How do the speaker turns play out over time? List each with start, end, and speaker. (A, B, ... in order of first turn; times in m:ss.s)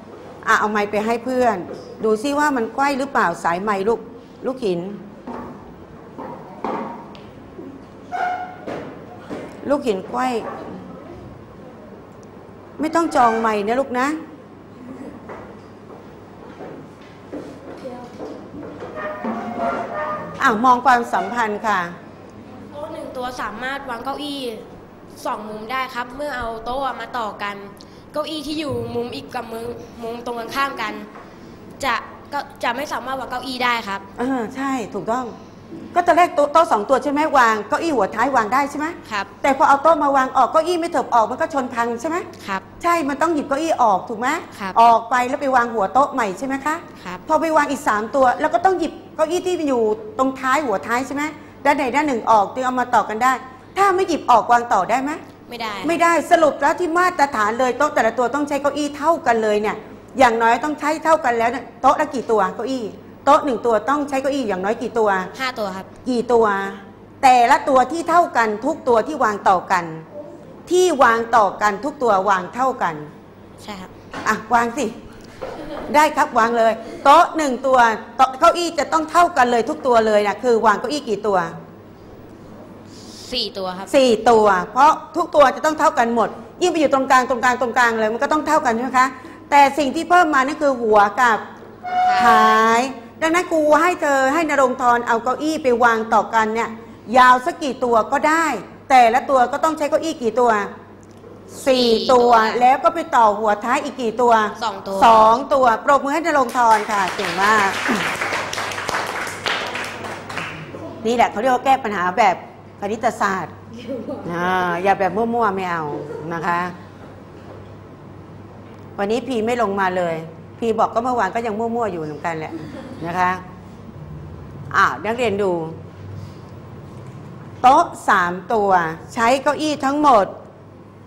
0:00.4-0:05.0 A
0:09.6-0:10.5 A
0:12.8-0:14.2 A
0:20.4-0:21.9 A
0:22.7-0:31.1 B
0:31.8-0:34.0 B
0:34.2-0:35.4 A
0:35.9-0:42.3 A
0:39.0-0:39.3 B
0:42.4-0:42.6 B
0:42.8-0:55.2 A
0:55.5-0:56.0 B
0:55.8-1:05.3 A
1:05.3-1:05.9 B
1:06.0-1:10.1 A
1:10.7-1:13.1 A
1:13.6-1:13.9 B
1:14.2-1:14.9 A
1:15.9-1:21.5 A
1:23.0-1:23.9 B
1:23.9-1:31.4 A
1:32.0-1:32.6 B
1:32.1-1:40.7 A
1:41.5-1:48.0 A
1:41.6-1:42.7 B
1:44.6-1:45.3 B
1:51.0-1:53.5 A
1:54.2-1:56.7 A
1:59.0-2:03.4 A
2:04.7-2:05.8 A
2:07.6-2:10.3 A